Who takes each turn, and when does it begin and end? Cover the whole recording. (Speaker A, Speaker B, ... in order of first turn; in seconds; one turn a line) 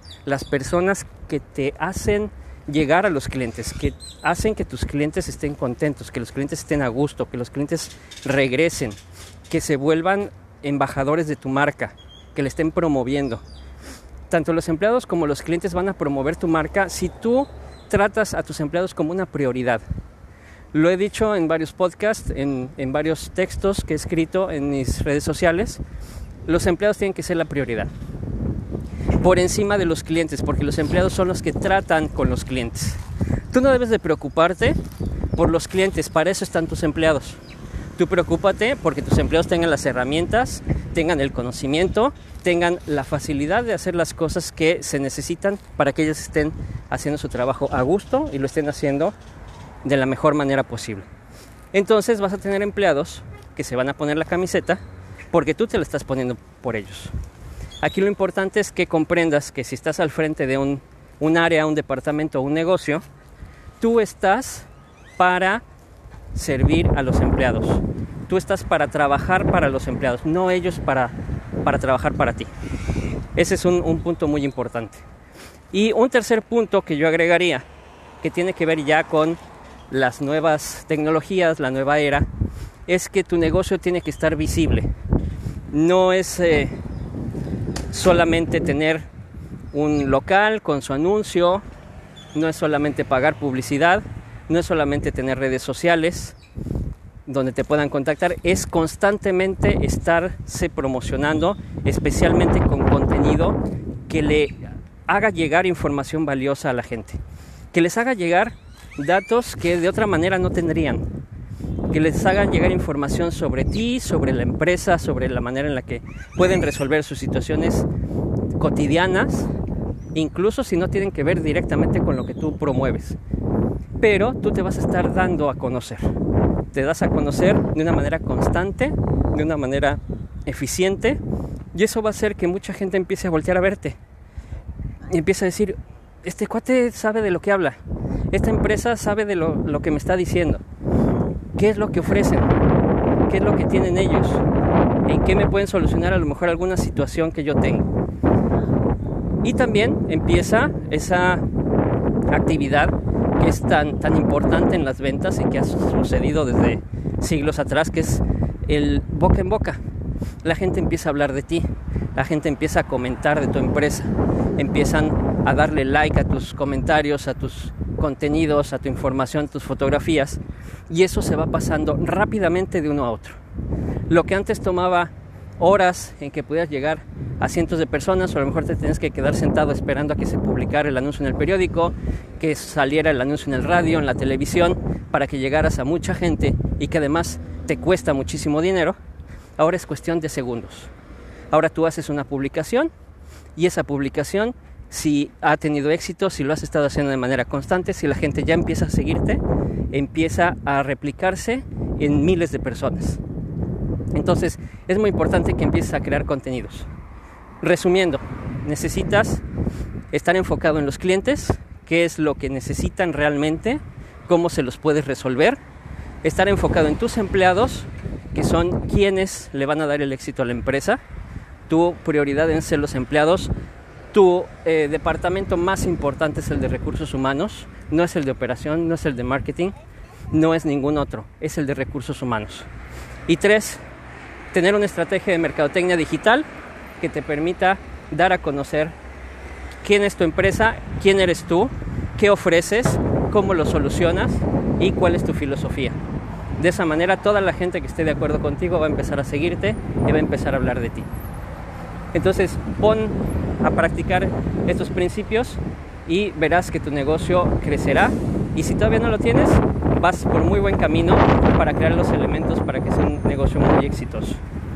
Speaker A: 0.2-9.0
Speaker A: 9.5-13.4
Speaker A: 14.3-19.8
Speaker A: 20.7-25.8
Speaker A: 26.4-27.9
Speaker A: 29.2-34.8
Speaker A: 35.3-37.4
Speaker A: 38.0-49.1
Speaker A: 49.8-51.1
Speaker A: 51.7-54.8
Speaker A: 55.3-57.1
Speaker A: 57.8-63.0
Speaker A: 63.8-65.6
Speaker A: 66.3-72.5
Speaker A: 73.3-75.0
Speaker A: 75.7-77.7
Speaker A: 78.2-79.4
Speaker A: 79.9-82.3
Speaker A: 82.9-84.9
Speaker A: 85.7-86.8
Speaker A: 87.9-89.1
Speaker A: 89.7-91.6
Speaker A: 92.3-96.4
Speaker A: 97.3-103.5
Speaker A: 104.1-107.2
Speaker A: 107.7-111.0
Speaker A: 111.9-117.9
Speaker A: 118.6-119.5
Speaker A: 120.1-123.2
Speaker A: 124.0-126.0
Speaker A: 126.7-131.2
Speaker A: 131.7-134.0
Speaker A: 135.1-137.8
Speaker A: 138.3-140.6
Speaker A: 141.6-142.5
Speaker A: 143.3-144.4
Speaker A: 145.1-147.9
Speaker A: 149.4-151.4
Speaker A: 152.3-159.8
Speaker A: 160.4-173.4
Speaker A: 174.1-189.0
Speaker A: 189.6-190.9
Speaker A: 191.5-192.9
Speaker A: 193.6-203.2
Speaker A: 204.1-206.9
Speaker A: 207.6-209.4
Speaker A: 210.1-215.6
Speaker A: 216.2-221.0
Speaker A: 221.7-223.5
Speaker A: 224.1-229.7
Speaker A: 230.3-232.7
Speaker A: 233.3-233.8
Speaker A: 234.5-236.5
Speaker A: 237.0-238.9
Speaker A: 239.8-246.0
Speaker A: 246.6-251.1
Speaker A: 252.1-264.4